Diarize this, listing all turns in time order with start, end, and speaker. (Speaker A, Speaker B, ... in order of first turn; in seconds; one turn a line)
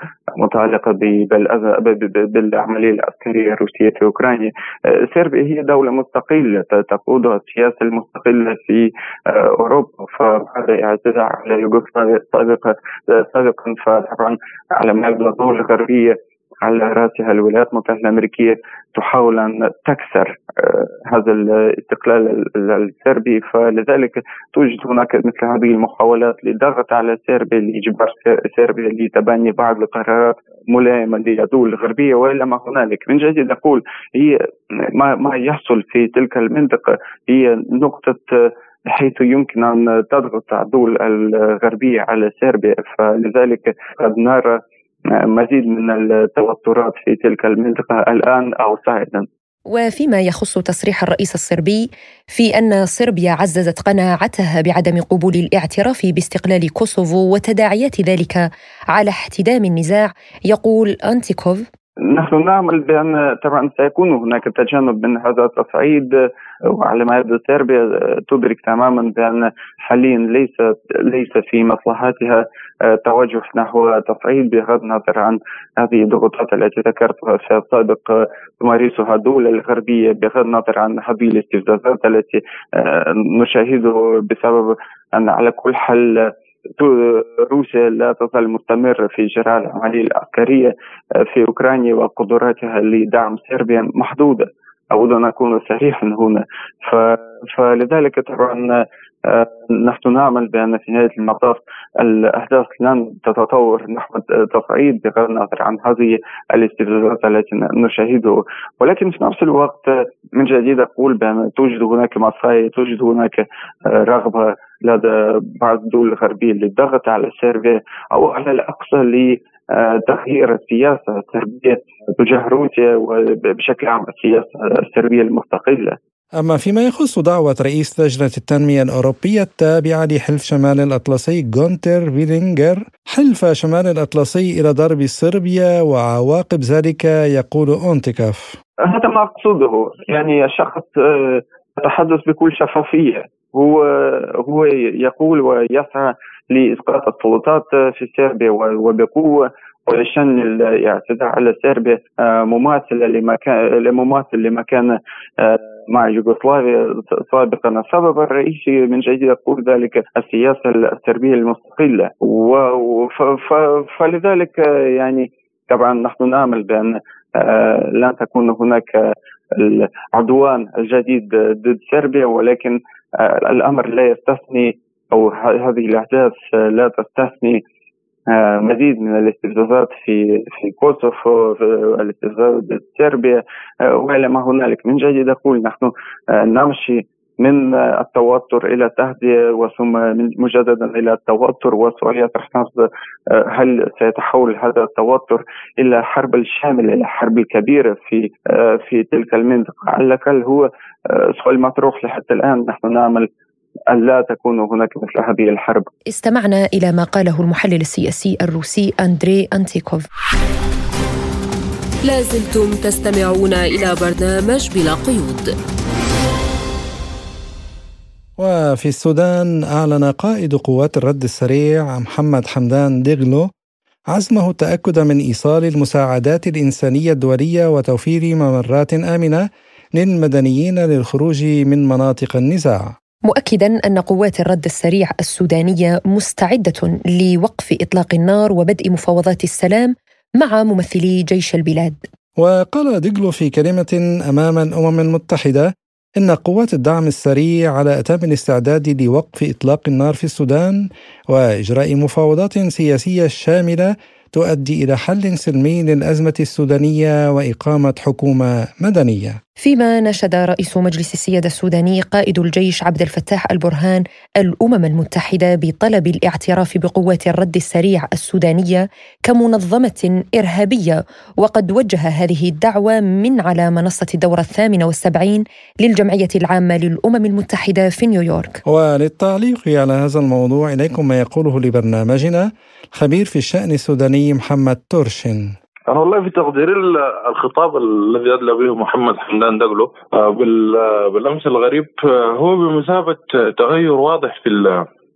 Speaker A: 0.4-38.3
Speaker A: 38.9-44.6
Speaker A: 45.3-49.2
Speaker B: 49.7-61.6
Speaker A: 62.1-66.1
Speaker A: 66.7-90.7
Speaker A: 91.3-98.7
Speaker A: 99.3-126.0
Speaker C: 126.4-138.5
Speaker A: 138.9-169.0
Speaker A: 169.6-177.6
Speaker A: 178.3-192.9
Speaker A: 193.4-200.6
Speaker A: 201.2-203.3
Speaker A: 203.9-205.9
Speaker B: 206.1-210.0
Speaker D: 212.1-215.4
Speaker C: 218.4-223.5
Speaker C: 224.1-229.4
Speaker C: 229.9-232.9
Speaker B: 233.3-242.0
Speaker C: 242.4-245.7
Speaker C: 246.2-259.4
Speaker B: 259.6-278.6
Speaker C: 278.7-285.5
Speaker E: 285.9-294.9